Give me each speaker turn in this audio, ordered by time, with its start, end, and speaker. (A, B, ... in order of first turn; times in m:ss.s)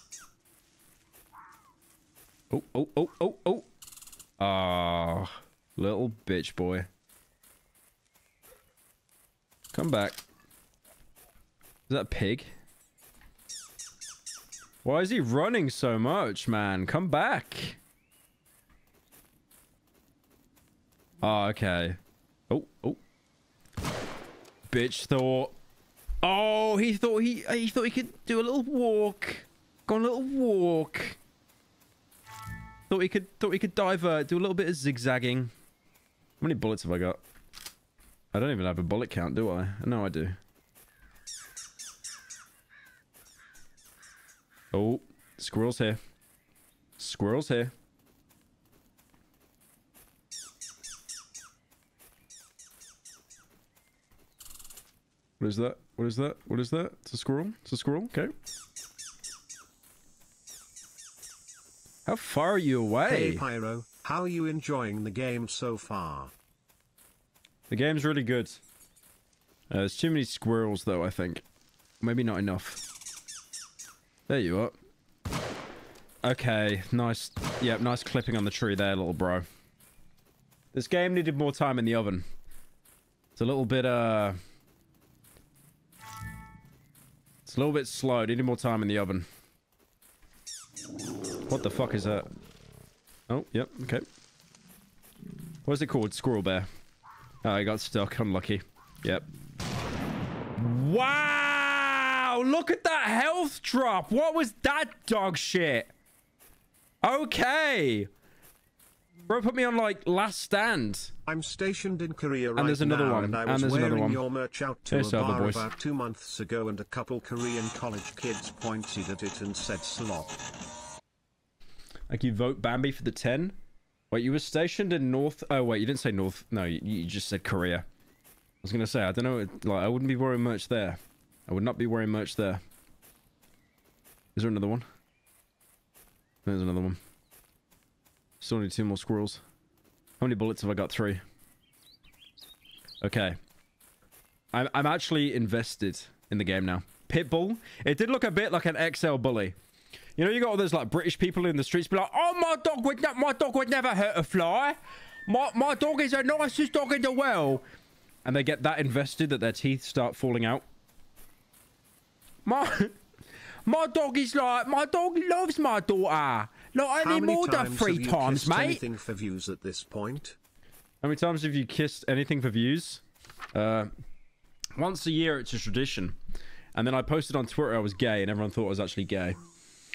0:02.5-0:03.6 A
0:04.4-0:06.9 A
0:09.7-0:10.2 A
0:11.9-0:12.5 A
0:14.8-0:17.8 A
0:21.2-0:22.0 A
0:22.5-0:23.0 A
0:24.7-0:25.5 A
0:26.2-0:31.2 A
0:32.9-0:35.5 A
0:36.4-0:37.2 A
0:38.3-0:40.4 A
0:44.7-0:46.0 A
0:47.0-0:47.7 A
0:55.4-0:58.3 A
1:02.0-1:03.4 A
1:03.0-1:06.3 B
1:07.7-1:08.6 A
1:09.7-1:11.4 A
1:12.0-1:12.8 A
1:14.3-1:14.7 A
1:16.2-1:19.4 A
1:20.7-1:22.2 A
1:23.4-1:24.4 A
1:27.4-1:29.2 A
1:31.5-1:32.3 A
1:33.3-1:34.0 A
1:35.6-1:36.7 A
1:37.4-1:39.3 A
1:40.6-1:45.9 A
1:47.0-1:48.1 A
1:49.3-1:51.1 A
1:51.2-2:00.4 B
1:52.6-1:54.2 A
1:54.9-1:55.6 A
2:02.1-2:03.6 A
2:04.1-2:07.8 A
2:08.6-2:12.6 A
2:14.3-2:14.8 A
2:16.4-2:17.0 A
2:18.4-2:19.4 A
2:20.2-2:21.2 A
2:23.0-2:23.4 A
2:24.5-2:29.5 A
2:30.2-2:37.6 A
2:38.2-2:40.6 A
2:42.4-2:42.9 A
2:43.6-2:48.8 A
2:47.0-2:50.4 B
2:51.0-2:53.0 A
2:53.5-2:53.9 A
2:54.8-2:56.2 A
2:56.7-2:59.4 A